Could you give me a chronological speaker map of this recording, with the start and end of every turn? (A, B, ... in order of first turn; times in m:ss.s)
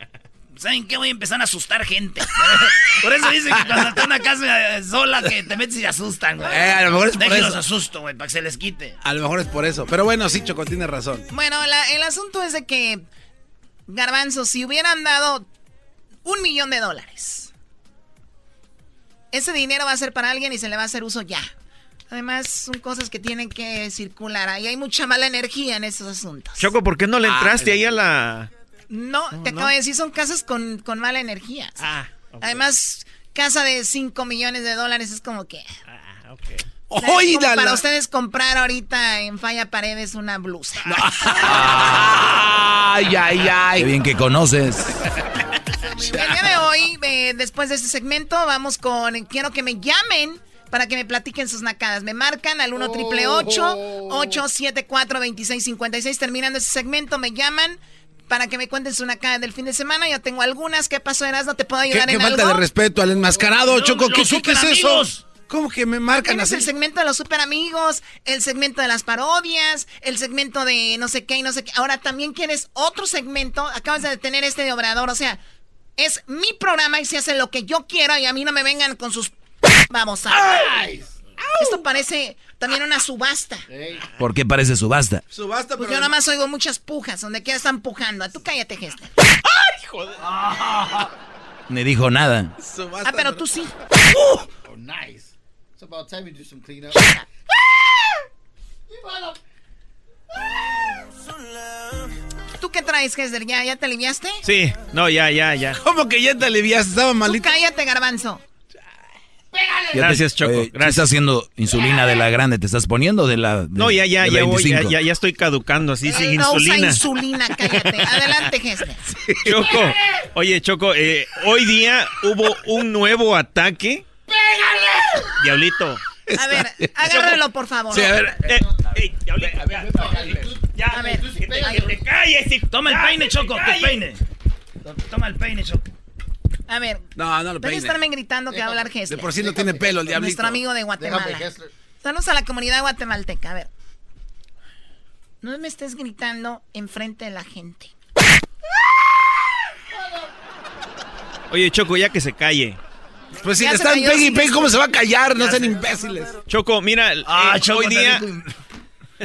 0:00.6-0:09.0 A
0:06.4-0:07.6 B
0:09.0-0:11.2 B
0:11.3-0:13.0 C
0:13.9-0:15.4 C
0:16.2-0:17.5 C
0:19.3-0:21.5 C
0:22.1-0:26.7 C
0:26.6-0:28.5 D
0:27.2-0:27.9 B
0:28.9-0:31.8 C
0:29.3-0:29.7 D
0:31.8-0:32.5 D
0:32.4-0:35.7 C
0:36.3-0:36.6 D
0:36.9-0:37.8 B
0:37.0-0:41.0 C
0:40.9-0:43.9 B
0:43.8-0:45.0 E
0:45.9-0:46.1 F
0:46.1-1:02.6 C
0:52.8-0:54.4 F
1:01.9-1:06.7 B
1:03.6-1:05.2 A
1:06.2-1:15.4 C
1:16.0-1:19.3 C
1:19.9-1:20.7 C
1:20.3-1:20.8 B
1:20.8-1:21.0 F
1:21.6-1:23.6 C
1:23.7-1:24.0 F
1:24.2-1:25.2 E
1:25.3-1:26.1 B
1:25.8-1:29.1 C
1:31.7-1:32.5 E
1:32.6-1:33.4 B
1:33.0-1:33.7 C
1:34.6-1:37.0 F
1:38.9-1:39.4 F
1:42.6-1:44.4 C
1:44.4-1:45.8 D
1:45.8-1:47.5 B
1:47.2-1:48.4 C
1:49.9-1:55.0 E
1:50.0-1:51.1 D
1:53.8-1:57.0 D
1:56.0-1:59.0 C
1:59.4-2:04.0 D
2:05.4-2:06.0 D
2:06.3-2:07.2 B
2:06.4-2:08.3 C
2:07.9-2:08.5 B
2:08.4-2:09.3 D
2:08.5-2:08.8 F
2:09.6-2:10.4 B
2:09.8-2:11.8 F
2:10.8-2:12.0 C
2:11.5-2:12.7 D
2:12.7-2:14.2 A
2:14.8-2:15.8 A
2:16.7-2:17.1 C
2:17.2-2:18.0 B
2:17.6-2:21.5 C
2:18.5-2:18.8 F
2:19.1-2:20.6 B
2:19.5-2:19.9 F
2:21.0-2:21.7 F
2:22.0-2:23.7 C
2:25.4-2:27.9 C
2:31.5-2:32.8 D
2:33.4-2:36.3 B
2:33.6-2:34.7 C
2:36.5-2:38.2 D
2:37.2-2:38.5 A